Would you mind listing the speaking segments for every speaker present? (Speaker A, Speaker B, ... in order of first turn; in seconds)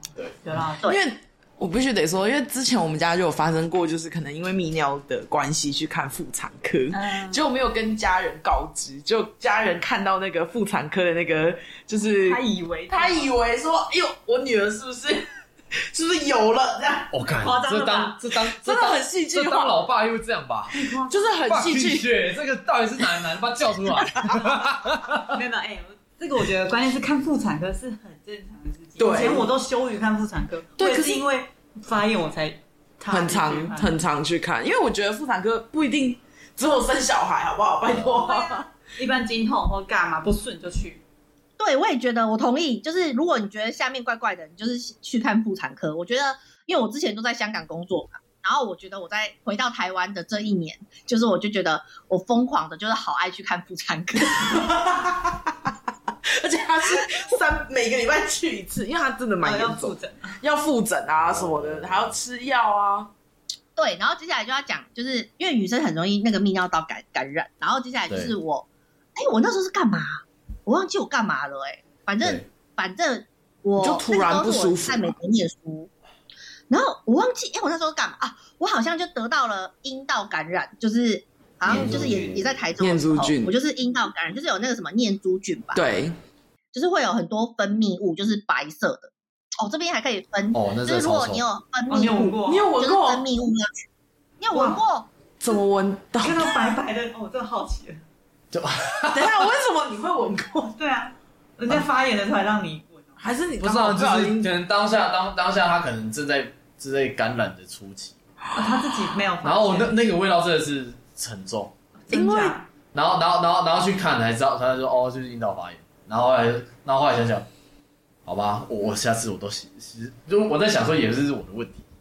Speaker A: 0.4-0.9, 6.9-7.4, 12.2-13.3, 17.4-18.2, 20.7-21.3, 25.3-33.9, 38.0-41.0, 59.4-60.4, 81.8-82.1, 91.9-92.7, 94.5-94.8, 96.2-98.0, 100.8-103.2, 108.5-110.0, 112.0-112.7
Speaker B: 0.8-17.2, 18.4-19.8, 21.0-22.1, 29.0-29.5, 30.8-31.2, 33.1-38.7, 54.3-55.7, 56.2-63.1, 73.8-75.2, 82.8-83.5, 85.7-86.2, 92.4-93.2, 95.4-96.8, 99.1-100.7, 103.2-104.5, 112.1-112.6
Speaker C: 17.1-20.9, 21.4-25.4, 61.2-62.2, 68.1-68.3, 72.2-72.5, 81.6-82.6, 90.5-91.4, 98.5-99.4, 103.6-108.2, 109.4-111.7, 112.9-117.5, 118.2-121.8
Speaker D: 41.6-54.6, 63.8-75.9, 76.7-85.8, 86.7-93.7, 94.4-95.1